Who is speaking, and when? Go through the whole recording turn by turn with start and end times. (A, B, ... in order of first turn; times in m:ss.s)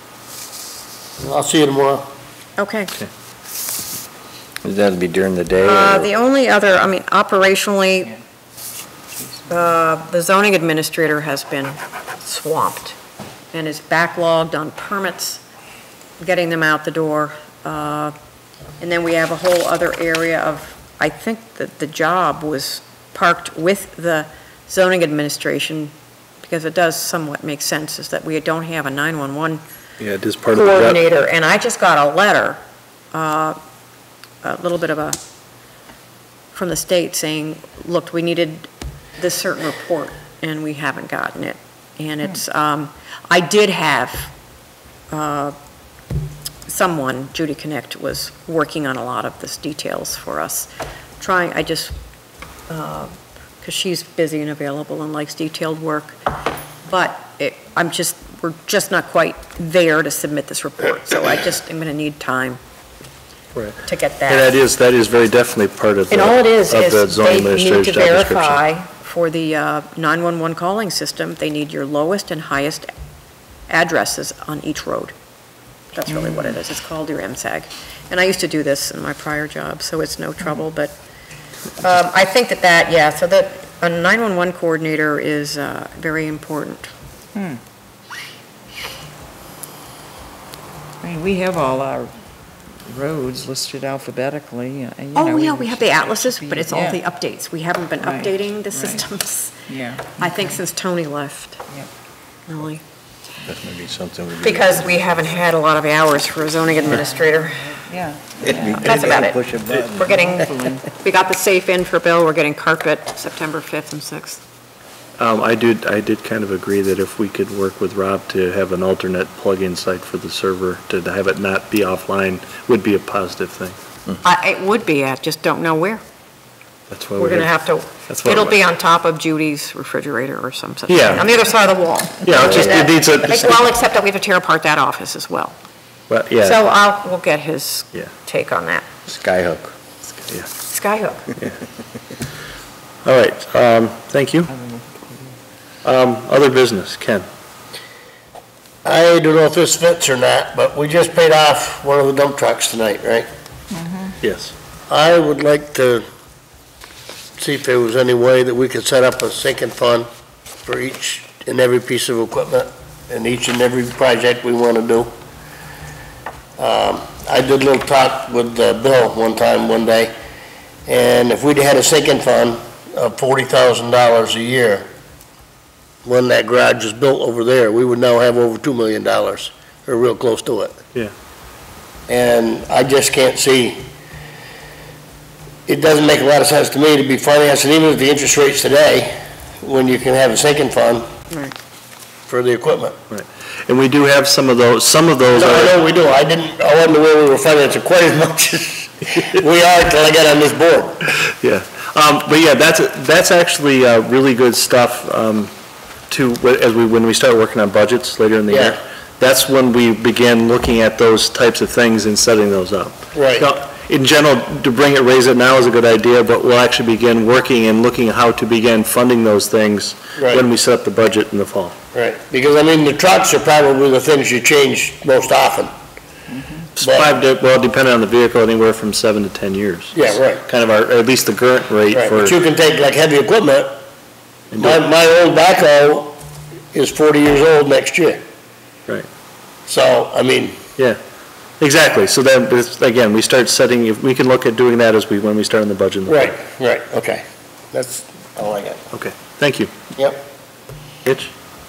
0:01.2-0:02.1 A
0:02.6-0:02.9 B
0:04.6-0:06.1 C
0:05.6-0:08.2 B
0:09.5-0:13.0 B
0:13.5-0:15.4 B
0:16.2-0:18.1 B
0:18.8-0:29.6 B
0:30.0-0:31.0 D
0:30.5-0:32.6 B
0:33.1-0:33.6 B
0:34.4-0:35.2 B
0:36.5-0:44.3 B
0:45.1-0:45.6 B
0:46.7-0:51.9 B
0:52.7-0:56.3 B
0:56.9-1:02.6 B
1:03.6-1:08.6 D
1:03.8-1:04.6 B
1:06.1-1:12.9 B
1:13.7-1:15.1 B
1:15.9-1:21.0 B
1:21.8-1:26.9 B
1:27.4-1:27.6 E
1:31.0-1:32.1 E
1:32.9-1:37.0 E
1:35.2-1:41.6 B
1:38.0-1:39.1 E
1:39.7-1:40.5 E
1:42.5-1:42.8 B
1:43.4-1:45.1 C
1:44.4-1:47.7 B
1:46.8-1:48.8 E
1:48.4-1:50.2 C
1:48.5-1:49.4 B
1:49.9-1:54.4 B
1:50.1-1:50.8 E
1:55.2-2:03.8 D
2:04.2-2:06.0 B
2:06.9-2:07.5 D
2:07.2-2:15.5 B
2:08.1-2:08.6 D
2:10.9-2:11.3 D
2:12.2-2:13.6 D
2:12.3-2:12.9 C
2:16.1-2:16.6 D
2:16.4-2:18.9 B
2:19.1-2:19.7 C
2:20.6-2:21.3 B
2:23.0-2:24.5 D
2:24.5-2:25.3 E
2:25.8-2:27.3 D
2:28.8-2:33.3 A
2:33.8-2:34.1 E
2:34.2-2:34.5 D
2:34.9-2:36.0 A
2:37.4-2:40.1 A
2:40.6-2:45.1 A
2:46.6-2:50.1 A
2:50.9-2:54.9 A
2:56.0-3:00.8 A
3:02.1-3:03.9 A
3:05.7-3:11.1 A
3:12.3-3:13.0 A
3:13.1-3:15.8 D
3:15.4-3:21.1 A
3:21.2-3:25.5 D
3:26.1-3:41.8 D
3:28.5-3:28.8 A
3:33.1-3:33.5 A
3:40.2-3:40.4 A
3:41.9-3:45.7 A
3:46.8-3:52.4 D
3:46.8-3:47.1 A
3:49.9-3:50.4 A
3:51.9-3:53.8 A
3:54.5-3:54.8 D
3:54.6-3:56.2 A
3:56.7-3:58.2 A
3:59.7-4:00.6 A
4:01.6-4:06.4 D
4:06.1-4:08.8 A
4:08.9-4:09.7 D
4:10.0-4:10.2 A
4:11.0-4:11.3 D